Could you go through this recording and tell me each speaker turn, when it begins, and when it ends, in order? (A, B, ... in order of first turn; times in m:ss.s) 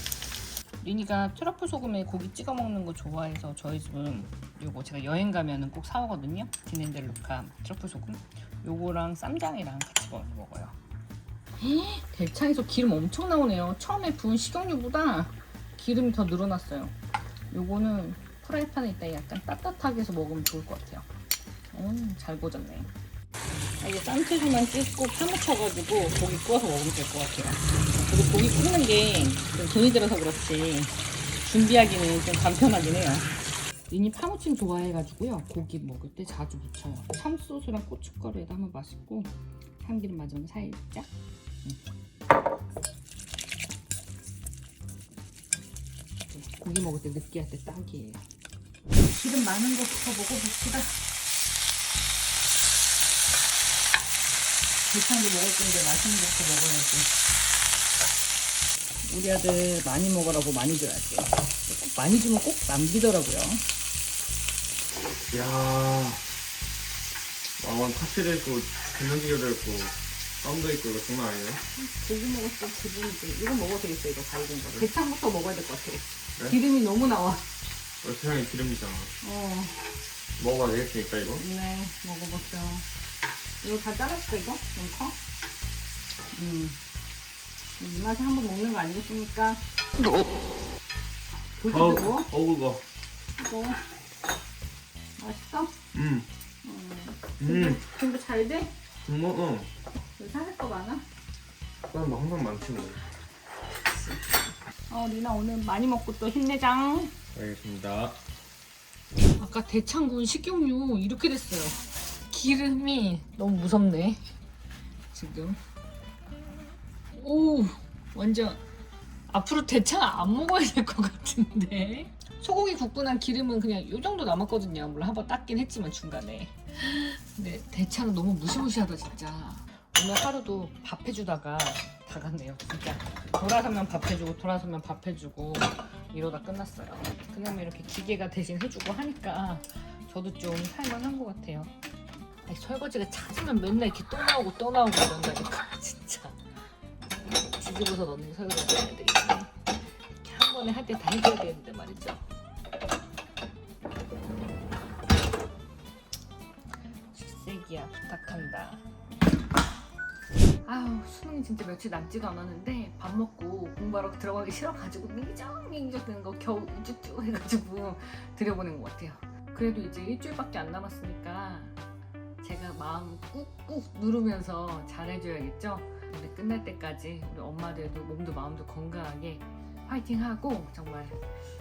0:00.8-0:10.8 A
0:11.6-0:17.0 A
0:17.5-0:21.1 A
0:21.7-0:22.9 A
0:23.8-0:33.3 A
0:33.9-0:41.1 A
0:46.3-0:48.2 A
0:49.1-0:51.0 A
0:54.9-0:57.1 A
0:59.0-1:03.6 A
1:05.3-1:06.2 B
1:07.6-1:11.6 B
1:11.8-1:17.4 A
1:18.0-1:19.1 B
1:19.2-1:19.8 A
1:20.4-1:21.4 B
1:21.3-1:22.9 A
1:23.6-1:25.2 A
1:26.3-1:26.8 A
1:27.8-1:29.6 A
1:31.6-1:32.3 A
1:31.7-1:32.8 B
1:33.4-1:33.8 A
1:35.2-1:35.8 A
1:35.9-1:36.3 B
1:36.6-1:38.7 A
1:37.4-1:37.8 B
1:39.0-1:39.7 B
1:40.2-1:41.0 A
1:41.9-1:43.0 B
1:43.8-1:47.1 A
1:47.3-1:48.2 B
1:49.4-1:54.2 A
1:55.1-1:55.6 A
1:57.1-1:58.6 A
1:59.3-2:21.7 A
2:22.5-2:26.4 A
2:27.3-2:29.6 A
2:30.2-2:32.2 A
2:37.1-2:38.8 A
2:40.6-2:51.8 A
2:52.4-3:01.2 A